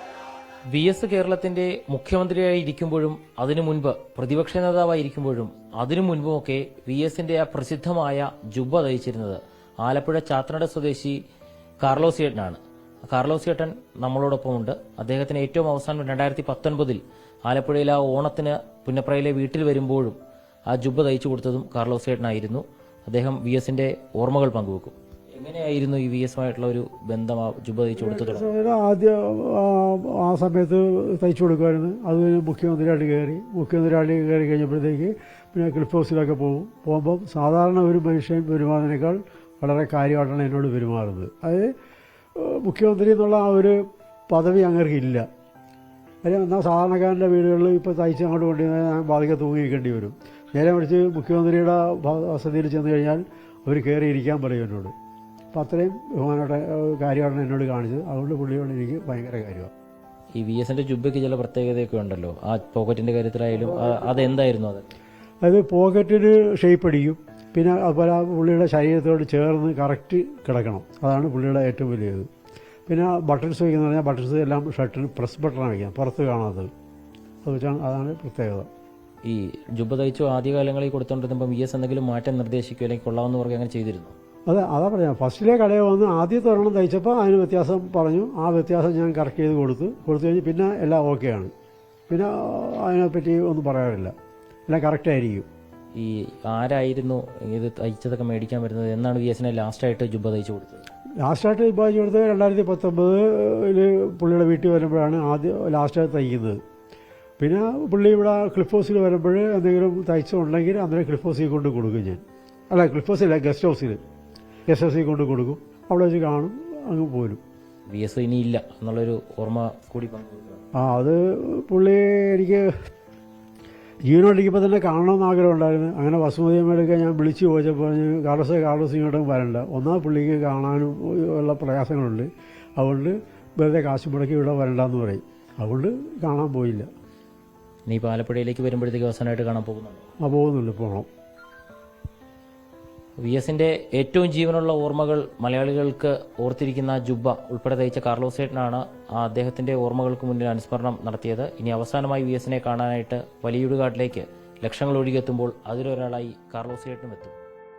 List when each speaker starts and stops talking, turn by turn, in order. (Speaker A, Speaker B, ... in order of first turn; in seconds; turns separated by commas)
Speaker A: 0.7-11.2, Speaker A: 11.8-20.2, Speaker A: 20.7-28.5, Speaker B: 28.0-41.7, Speaker B: 42.4-45.3, Speaker B: 46.2-54.9, Speaker B: 55.5-59.7, Speaker A: 60.4-64.8, Speaker B: 63.6-64.3, Speaker B: 65.4-72.3, Speaker B: 72.9-76.7, Speaker B: 77.4-78.7, Speaker A: 79.2-84.1, Speaker B: 84.5-91.5, Speaker B: 92.1-94.1, Speaker B: 94.7-95.5, Speaker A: 96.0-100.8, Speaker B: 101.2-106.6, Speaker B: 107.4-114.0, Speaker B: 114.7-117.4, Speaker A: 117.9-120.6, Speaker B: 120.8-122.7, Speaker B: 124.1-136.9, Speaker A: 137.9-140.0, Speaker B: 140.2-141.1, Speaker A: 143.2-157.3